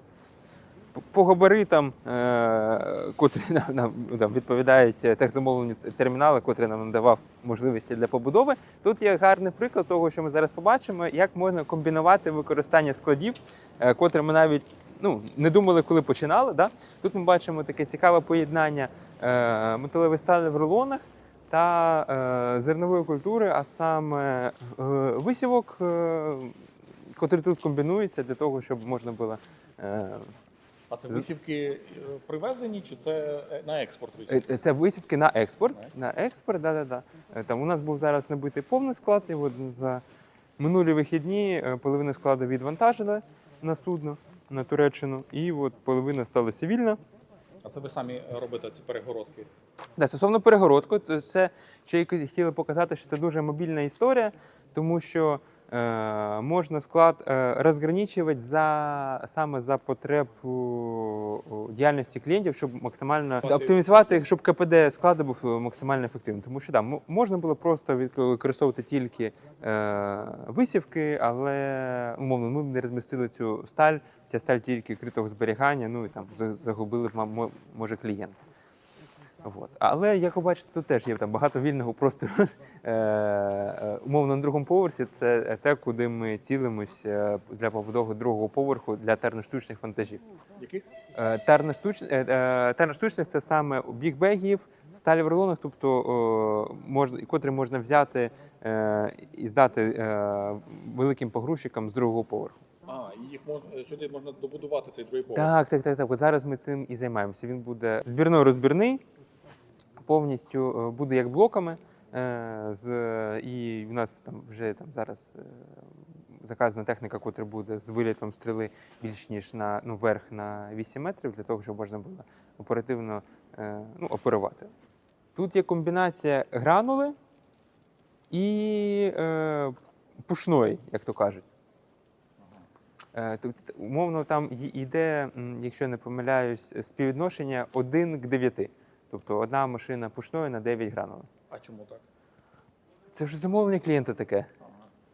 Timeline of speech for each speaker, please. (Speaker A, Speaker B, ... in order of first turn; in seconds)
Speaker A: 0.9-26.6, 27.1-30.3, 34.3-40.0, 40.6-47.0, 50.0-78.4, 79.4-90.2, 91.1-102.6, 105.3-109.0, 110.0-115.7, 116.4-124.7, 125.3-127.2, 128.3-129.8, 130.3-131.4, 133.1-141.3, 143.1-144.5
Speaker B: 30.9-34.5, 47.6-49.5, 63.4-64.2, 90.6-90.8, 102.9-105.5, 141.5-142.0